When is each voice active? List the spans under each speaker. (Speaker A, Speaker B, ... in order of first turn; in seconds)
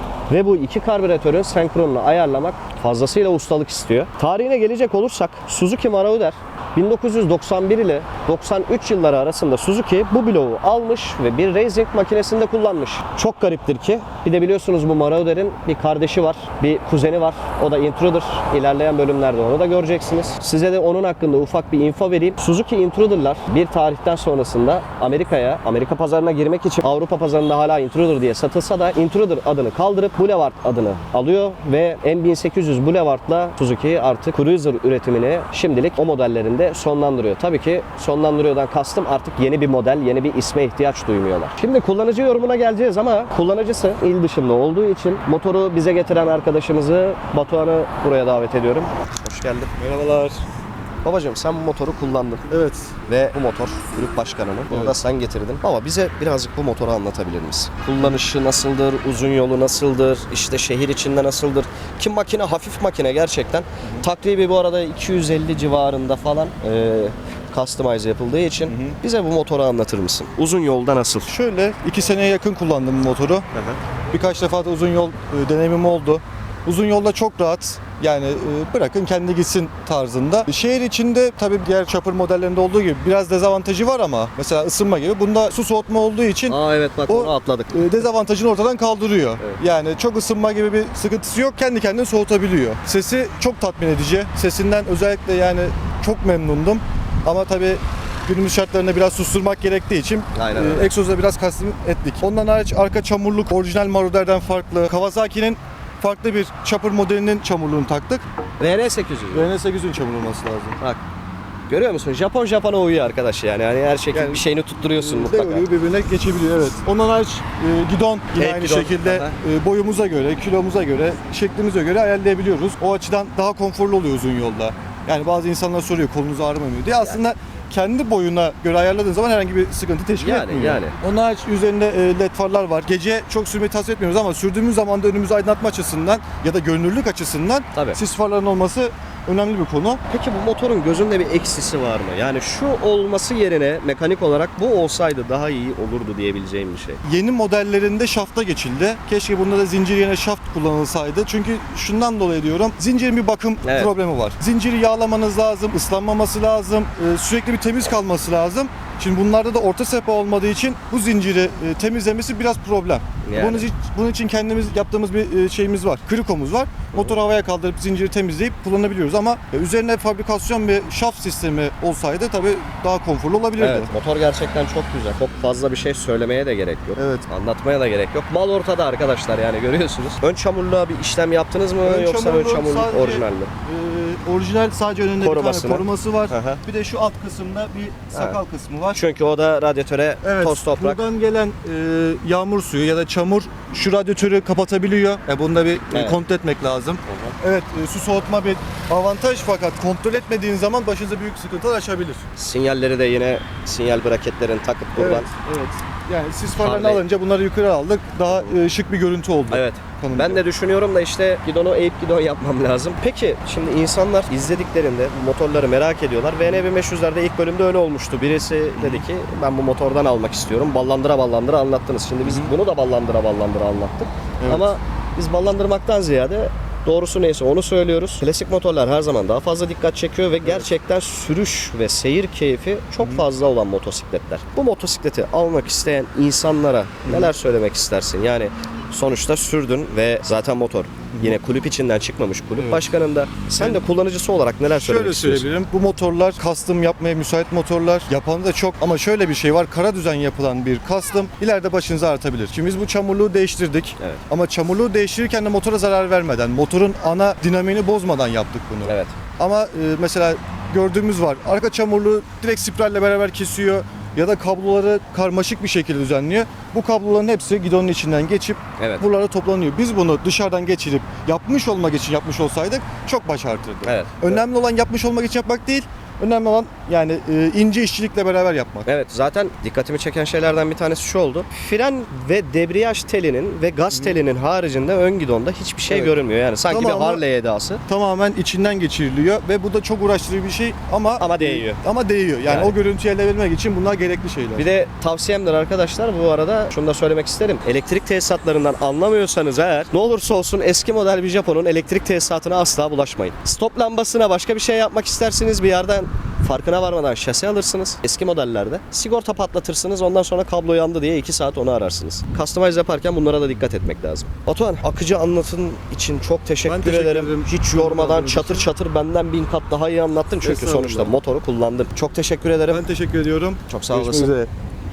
Speaker A: 0.3-49.8, 51.0-52.5, 53.0-71.3, 86.5-88.0, 100.3-100.9, 108.6-109.5, 111.7-115.6, 118.3-119.3, 126.9-127.3, 130.2-130.9, 137.7-138.0, 140.1-147.0, 153.6-153.9, 163.2-163.7, 166.9-167.2, 173.6-183.5, 185.2-186.6, 188.1-188.4, 188.9-191.0, 195.9-196.2, 197.1-197.3, 202.4-205.3, 206.5-207.0, 208.3-208.5, 209.5-245.5, 258.8-259.1, 268.8-269.0, 273.9-274.4, 278.9-287.8, 291.2-291.8, 292.4-292.8, 294.6-322.8, 323.7-324.4
Speaker B: 49.8-50.4, 52.5-52.9, 54.7-54.9, 68.7-69.0, 71.3-73.5, 74.1-86.6, 87.1-108.2, 109.3-110.8, 114.1-140.0, 147.0-173.9, 176.9-177.2, 181.8-189.0, 190.2-202.2, 204.9-210.4, 218.8-219.0, 222.2-222.5, 224.4-224.8, 242.6-242.8, 244.7-278.9, 285.9-286.1, 286.7-287.2, 287.9-294.7, 316.6-318.7, 320.4-321.1, 322.7-324.5